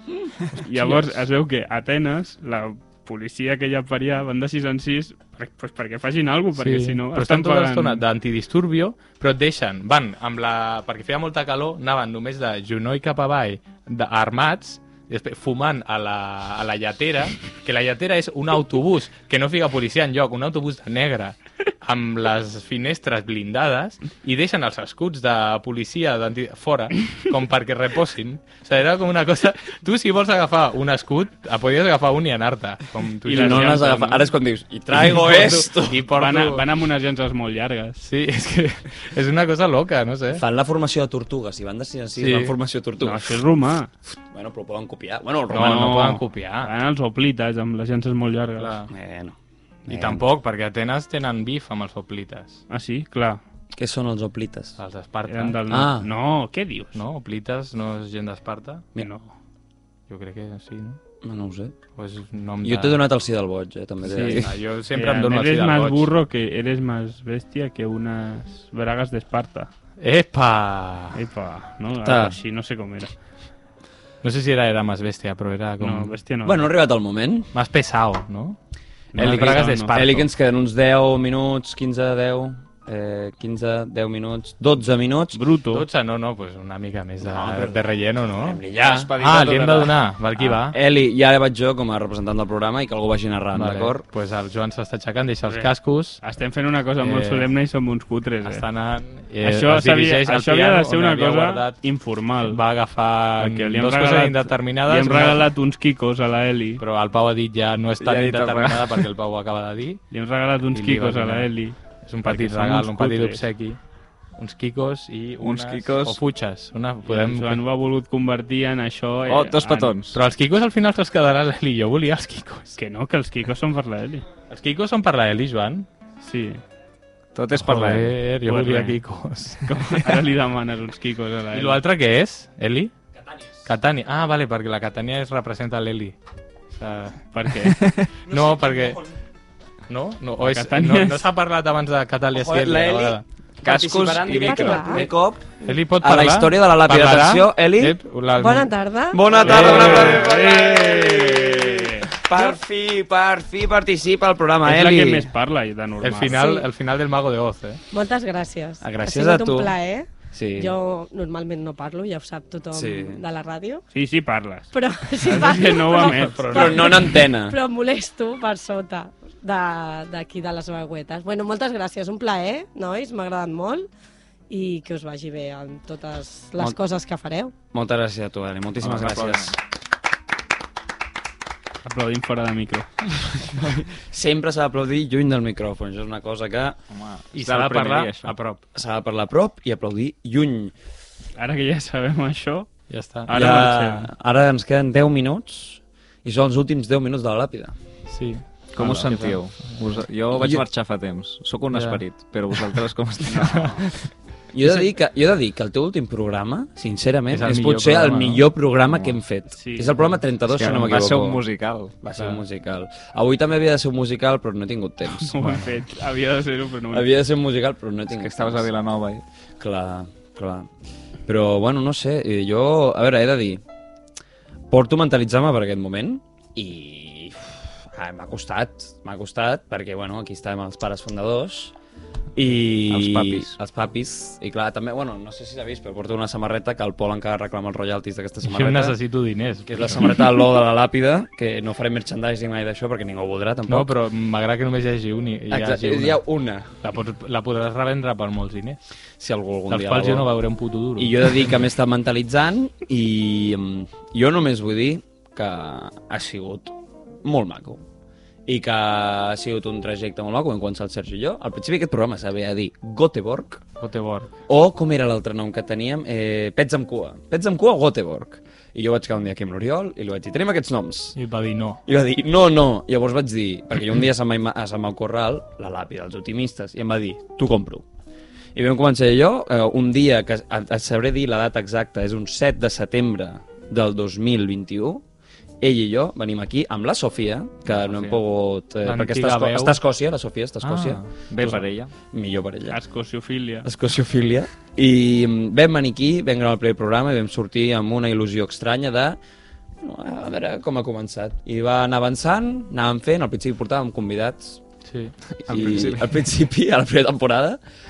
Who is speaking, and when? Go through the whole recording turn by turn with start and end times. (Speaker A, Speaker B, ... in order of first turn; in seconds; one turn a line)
Speaker A: 0.5-1.1
Speaker B: 0.6-8.0
Speaker A: 6.6-34.2
Speaker B: 33.2-34.2
Speaker C: 33.2-36.0
Speaker A: 34.9-36.6
Speaker B: 36.1-38.0
Speaker A: 38.0-40.4
Speaker C: 40.3-43.4
Speaker A: 42.2-42.5
Speaker B: 43.0-43.9
Speaker C: 44.2-46.1
Speaker A: 45.5-46.7
Speaker B: 45.5-48.8
Speaker A: 48.6-48.9
Speaker C: 48.9-49.4
Speaker C: 49.9-50.2
Speaker A: 49.9-52.6
Speaker B: 52.7-53.4
Speaker C: 53.8-54.8
Speaker A: 54.8-55.6
Speaker B: 55.3-57.0
Speaker C: 55.7-56.1
Speaker A: 56.9-58.9
Speaker B: 59.0-59.3
Speaker A: 60.1-61.0
Speaker C: 61.2-61.7
Speaker A: 62.0-63.0
Speaker C: 62.6-64.5
Speaker B: 64.1-69.7
Speaker A: 64.1-66.1
Speaker A: 70.0-71.2
Speaker B: 71.1-73.1
Speaker C: 72.0-72.3
Speaker A: 74.2-76.1
Speaker B: 75.8-76.7
Speaker C: 76.4-77.5
Speaker A: 77.5-78.6
Speaker B: 79.1-79.9
Speaker A: 79.2-80.3
Speaker C: 79.2-85.4
Speaker B: 85.3-85.8
Speaker A: 85.7-90.8
Speaker C: 87.2-87.8
Speaker C: 88.4-89.1
Speaker D: 88.8-90.0
Speaker C: 90.4-94.0
Speaker A: 93.5-96.2
Speaker B: 95.5-98.6
Speaker A: 97.0-97.4
Speaker A: 98.4-101.8
Speaker B: 99.4-102.6
Speaker A: 102.4-105.5
Speaker B: 103.4-106.8
Speaker A: 106.8-110.0
Speaker D: 108.0-109.1
Speaker B: 110.1-113.5
Speaker A: 110.7-111.5
Speaker A: 112.0-113.8
Speaker A: 114.3-117.6
Speaker D: 115.4-116.2
Speaker B: 117.0-120.0
Speaker D: 119.3-120.2
Speaker A: 120.1-122.8
Speaker B: 122.8-124.2
Speaker A: 124.5-125.9
Speaker B: 126.2-126.6
Speaker D: 127.3-128.2
Speaker A: 127.5-130.2
Speaker B: 128.4-129.0
Speaker B: 129.6-131.8
Speaker A: 131.5-132.9
Speaker A: 133.6-136.2
Speaker A: 136.7-137.3
Speaker B: 137.3-137.9
Speaker D: 137.7-138.1
Speaker A: 138.2-139.0
Speaker A: 139.9-143.2
Speaker B: 140.4-141.3
Speaker C: 142.3-148.0
Speaker D: 143.6-145.1
Speaker E: 144.4-145.7
Speaker A: 145.6-148.7
Speaker E: 148.3-149.7
Speaker C: 149.1-155.3
Speaker B: 149.4-152.1
Speaker A: 149.4-150.4
Speaker B: 154.6-156.4
Speaker A: 156.0-157.8
Speaker E: 156.2-156.7
Speaker E: 157.9-163.8
Speaker C: 158.8-159.7
Speaker C: 160.3-160.7
Speaker C: 162.7-163.2
Speaker B: 163.9-166.5
Speaker E: 164.7-173.9
Speaker A: 165.9-167.0
Speaker C: 166.5-167.6
Speaker E: 174.5-177.6
Speaker C: 177.7-179.6
Speaker D: 178.8-179.6
Speaker B: 181.8-182.9
Speaker C: 183.3-186.8
Speaker D: 186.9-188.3
Speaker A: 187.3-188.6
Speaker C: 188.7-190.7
Speaker B: 191.4-194.1
Speaker A: 192.9-193.9
Speaker C: 193.3-197.7
Speaker A: 198.1-199.9
Speaker D: 198.7-203.9
Speaker A: 201.7-202.0
Speaker B: 203.2-203.7
Speaker A: 203.4-203.9
Speaker C: 204.5-211.4
Speaker A: 207.3-208.4
Speaker D: 208.9-209.2
Speaker B: 209.6-210.1
Speaker D: 210.5-211.9
Speaker C: 212.0-215.4
Speaker B: 215.1-217.1
Speaker A: 215.3-215.8
Speaker C: 216.9-218.7
Speaker D: 218.1-219.2
Speaker C: 219.6-220.7
Speaker C: 221.2-223.6
Speaker C: 224.7-231.7
Speaker C: 232.3-239.0
Speaker D: 232.9-233.6
Speaker A: 238.4-240.2
Speaker C: 239.7-243.9
Speaker A: 243.7-246.2
Speaker C: 245.5-246.8
Speaker A: 246.8-248.8
Speaker C: 249.2-250.3
Speaker A: 249.7-251.6
Speaker C: 251.0-257.8
Speaker C: 258.4-263.6
Speaker A: 263.8-264.3
Speaker C: 264.5-271.2
Speaker A: 271.1-271.8
Speaker C: 271.9-277.8
Speaker C: 278.5-285.0
Speaker C: 285.6-291.0
Speaker D: 287.7-288.2
Speaker A: 288.8-289.8
Speaker A: 290.6-291.6
Speaker D: 291.3-291.9
Speaker C: 292.1-292.8
Speaker B: 292.7-293.7
Speaker C: 293.6-299.2
Speaker C: 299.8-304.6
Speaker A: 304.9-305.1
Speaker C: 305.4-307.6
Speaker D: 305.4-306.3